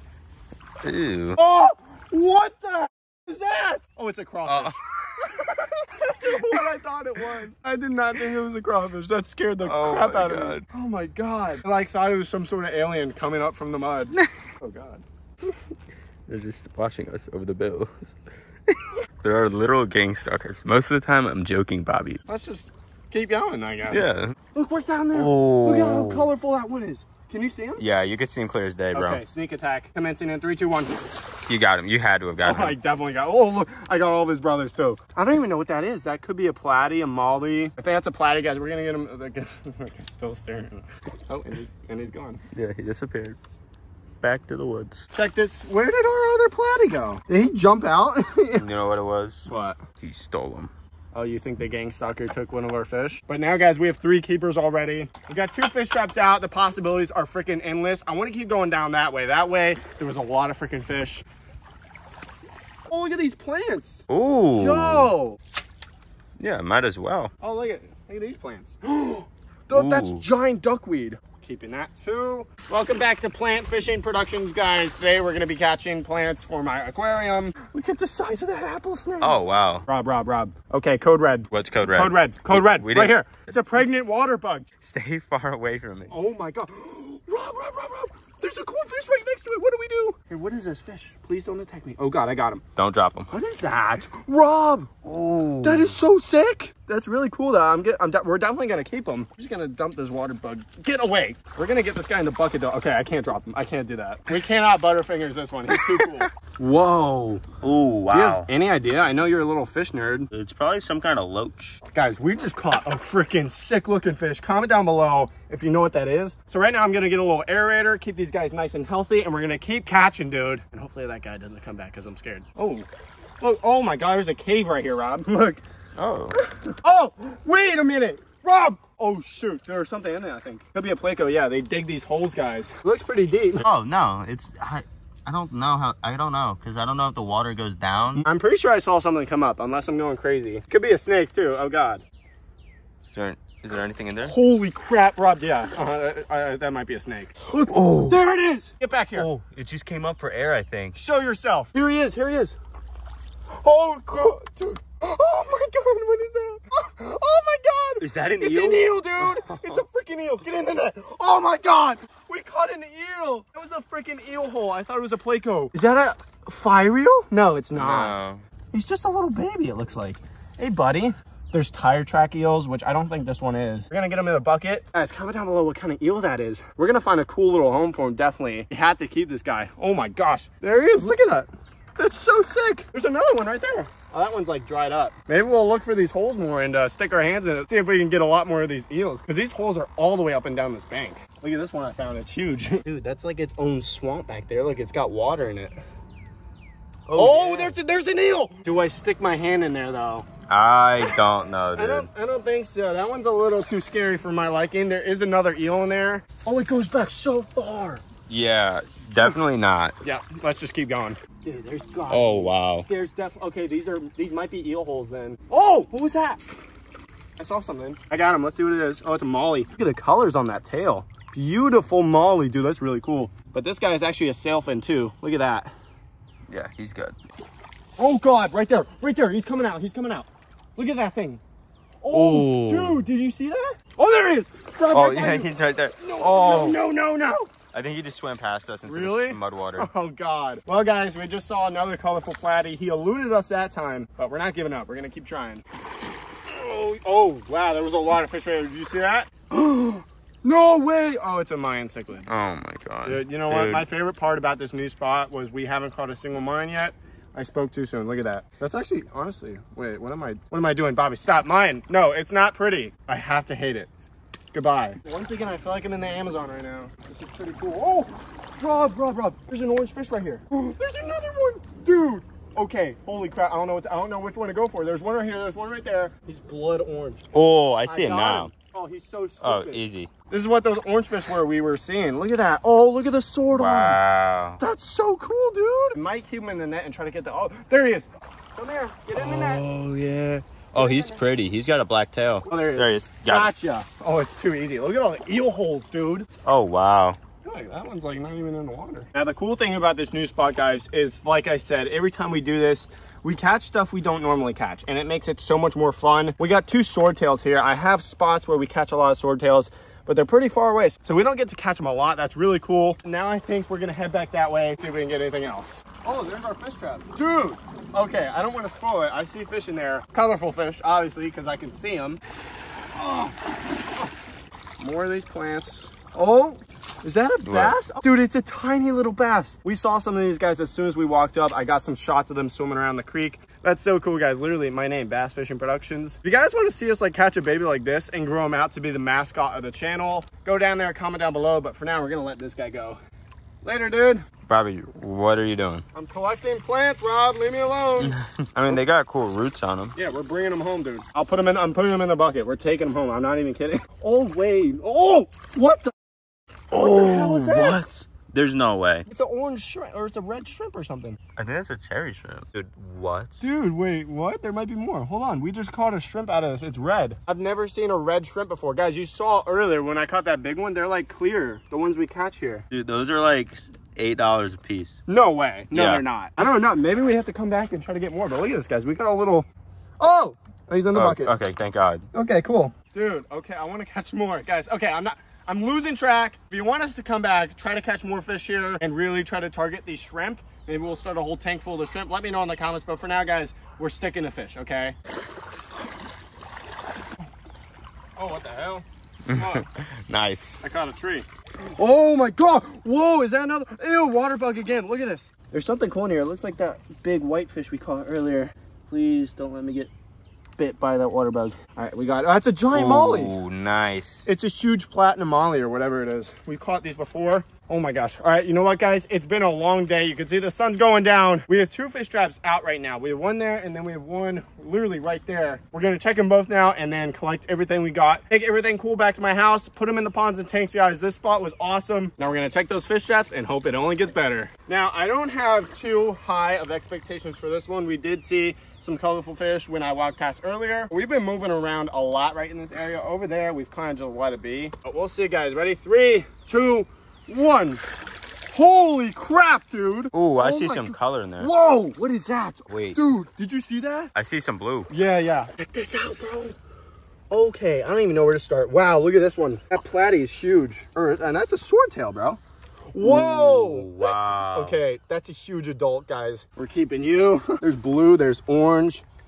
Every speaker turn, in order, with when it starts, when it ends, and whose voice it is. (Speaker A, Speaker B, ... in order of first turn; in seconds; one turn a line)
Speaker A: 0.8-1.4
Speaker B: 1.4-15.0
Speaker A: 4.4-5.3
Speaker A: 6.2-6.6
Speaker A: 9.6-10.6
Speaker A: 16.3-18.1
Speaker A: 18.7-22.2
Speaker B: 22.3-27.8
Speaker A: 23.9-24.3
Speaker A: 25.1-26.3
Speaker A: 27.8-29.2
Speaker B: 28.9-31.0
Speaker A: 31.5-32.8
Speaker B: 32.4-42.4
Speaker A: 42.5-43.4
Speaker A: 44.2-45.1
Speaker B: 45.1-48.7
Speaker A: 48.6-49.5
Speaker B: 49.5-49.8
Speaker A: 50.0-50.7
Speaker B: 51.1-61.2
Speaker B: 62.9-64.0
Speaker A: 64.1-65.1
Speaker B: 64.6-65.4
Speaker A: 66.4-67.3
Speaker B: 67.4-84.7
Speaker A: 69.7-70.2
Speaker A: 79.2-79.8
Speaker A: 81.5-83.1
Speaker A: 84.8-86.1
Speaker B: 86.1-92.6
Speaker A: 92.8-93.3
Speaker B: 93.3-94.9
Speaker A: 95.0-95.9
Speaker B: 95.6-107.4
Speaker A: 105.7-106.2
Speaker A: 107.6-108.5
Speaker B: 108.1-110.3
Speaker A: 110.3-111.8
Speaker B: 111.9-122.8
Speaker B: 123.4-125.6
Speaker A: 126.0-126.3
Speaker B: 126.3-133.6
Speaker A: 133.6-138.2
Speaker B: 138.2-142.0
Speaker A: 143.1-144.3
Speaker B: 144.2-149.3
Speaker A: 147.7-148.2
Speaker A: 149.1-151.0
Speaker B: 150.9-152.6
Speaker B: 153.6-168.2
Speaker A: 158.0-159.8
Speaker A: 167.7-168.4
Speaker B: 168.7-195.8
Speaker A: 197.1-197.8
Speaker B: 197.1-200.2
Speaker A: 200.5-202.1
Speaker B: 201.7-208.0
Speaker A: 208.3-209.9
Speaker B: 210.0-216.4
Speaker A: 212.1-212.9
Speaker B: 217.4-225.7
Speaker A: 226.5-227.2
Speaker B: 228.0-231.4
Speaker B: 232.0-237.5
Speaker A: 232.1-233.1
Speaker A: 234.9-236.8
Speaker A: 237.7-239.9
Speaker B: 238.8-245.6
Speaker B: 246.5-252.3
Speaker A: 252.3-253.8
Speaker B: 253.0-263.9
Speaker B: 264.5-277.2
Speaker A: 277.3-278.5
Speaker B: 277.9-284.0
Speaker A: 279.4-280.1
Speaker A: 283.5-284.6
Speaker B: 284.6-289.6
Speaker A: 289.1-293.5
Speaker B: 290.8-291.2
Speaker B: 292.5-296.3
Speaker A: 296.4-297.2
Speaker B: 297.4-322.2
Speaker B: 322.9-324.1
Speaker B: 324.8-343.0
Speaker A: 327.4-327.8
Speaker B: 343.6-344.2
Speaker A: 344.5-345.8
Speaker B: 345.9-348.1
Speaker A: 348.0-349.9
Speaker B: 349.9-355.9
Speaker A: 356.7-359.0
Speaker B: 356.8-357.9
Speaker B: 359.1-361.2
Speaker A: 361.4-363.4
Speaker B: 363.4-372.6
Speaker A: 372.7-375.0
Speaker B: 375.1-379.5
Speaker A: 375.7-376.0
Speaker B: 380.0-381.3
Speaker A: 380.9-382.1
Speaker B: 382.1-394.9
Speaker B: 398.2-399.6
Speaker A: 399.3-400.6
Speaker B: 400.6-409.9
Speaker B: 410.6-413.4
Speaker A: 412.7-414.3
Speaker B: 414.2-447.8
Speaker B: 448.5-454.1
Speaker A: 450.1-451.5
Speaker A: 452.7-453.0
Speaker A: 454.1-454.9
Speaker B: 454.9-456.6
Speaker B: 457.3-462.4
Speaker B: 462.9-469.0
Speaker A: 463.0-464.8